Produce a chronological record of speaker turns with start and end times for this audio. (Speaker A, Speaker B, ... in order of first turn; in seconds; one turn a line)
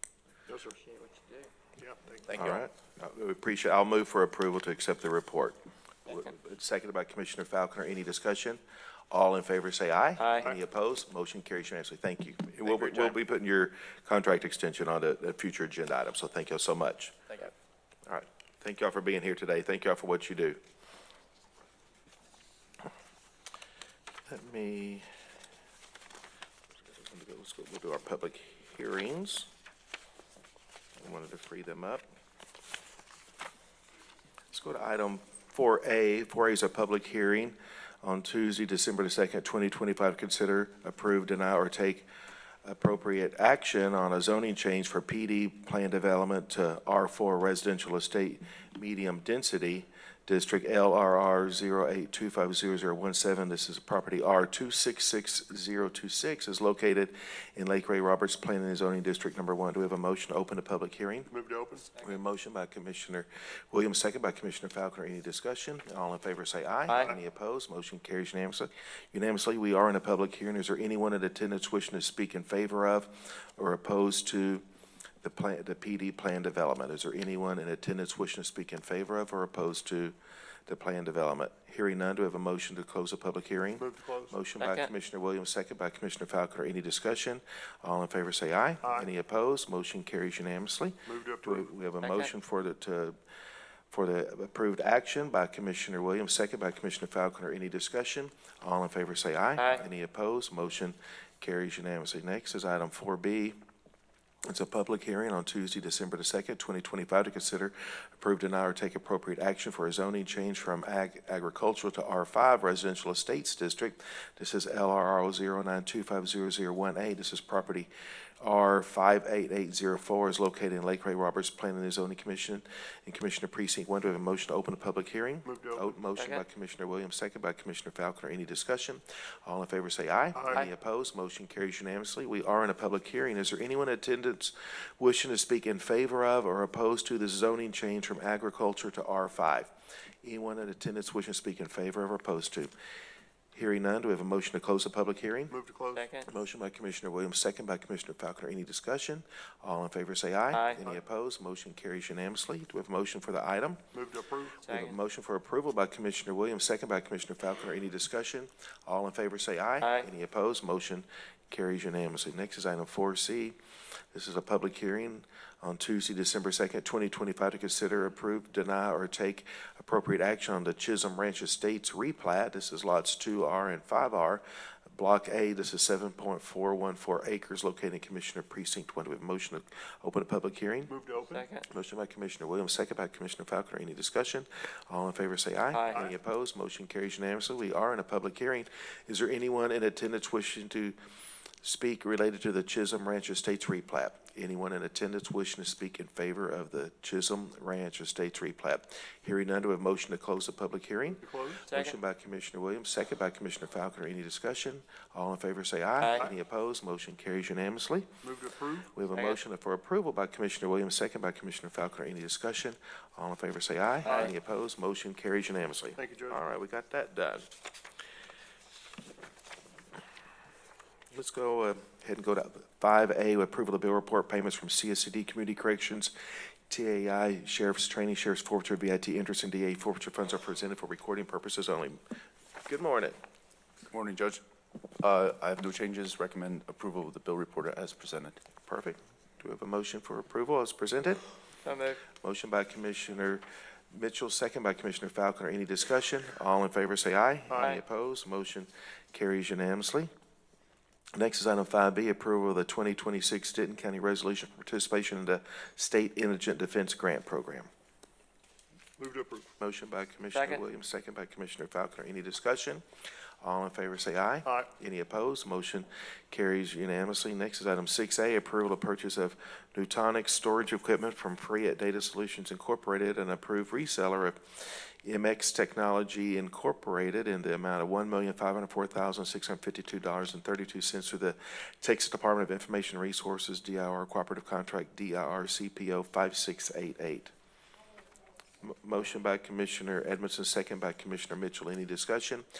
Speaker A: 0.5-0.8
Speaker B: 0.8-1.5
Speaker A: 1.8-2.4
Speaker C: 2.3-2.6
Speaker D: 2.3-8.6
Speaker D: 9.1-17.1
Speaker B: 10.2-10.5
Speaker D: 18.1-20.6
Speaker D: 24.3-25.1
Speaker D: 26.9-29.5
Speaker D: 31.0-32.0
Speaker D: 34.5-42.1
Speaker D: 42.6-61.3
Speaker A: 61.3-61.9
Speaker B: 61.9-62.2
Speaker D: 62.0-74.6
Speaker D: 75.2-80.1
Speaker D: 80.7-93.2
Speaker A: 83.8-84.3
Speaker B: 84.6-84.9
Speaker A: 88.8-89.1
Speaker A: 91.0-91.7
Speaker B: 92.0-92.3
Speaker D: 93.9-103.5
Speaker B: 99.6-99.8
Speaker D: 104.5-117.9
Speaker D: 118.4-139.7
Speaker A: 125.4-125.9
Speaker B: 126.2-126.4
Speaker A: 130.3-130.7
Speaker D: 140.2-142.7
Speaker D: 143.5-145.5
Speaker A: 145.5-146.1
Speaker B: 145.9-146.3
Speaker D: 146.2-153.8
Speaker B: 150.5-150.8
Speaker A: 153.9-154.6
Speaker B: 154.6-154.9
Speaker D: 154.7-163.6
Speaker B: 159.8-160.1
Speaker D: 164.1-180.9
Speaker A: 180.9-181.4
Speaker B: 181.3-181.7
Speaker D: 181.7-190.9
Speaker B: 185.7-186.0
Speaker D: 191.6-208.1
Speaker A: 201.2-201.7
Speaker B: 201.7-201.9
Speaker B: 206.0-206.2
Speaker A: 208.2-208.9
Speaker D: 208.9-217.5
Speaker B: 209.1-209.4
Speaker B: 214.0-214.3
Speaker A: 216.0-216.4
Speaker D: 221.1-226.1
Speaker D: 226.7-232.0
Speaker D: 232.6-233.2
Speaker C: 233.9-234.4
Speaker C: 235.0-238.4
Speaker D: 238.7-241.2
Speaker B: 241.6-242.0
Speaker D: 242.1-250.1
Speaker A: 247.5-247.8
Speaker D: 251.1-257.7
Speaker A: 259.0-259.5
Speaker D: 259.6-262.8
Speaker B: 260.3-260.6
Speaker D: 263.4-287.3
Speaker D: 288.6-292.4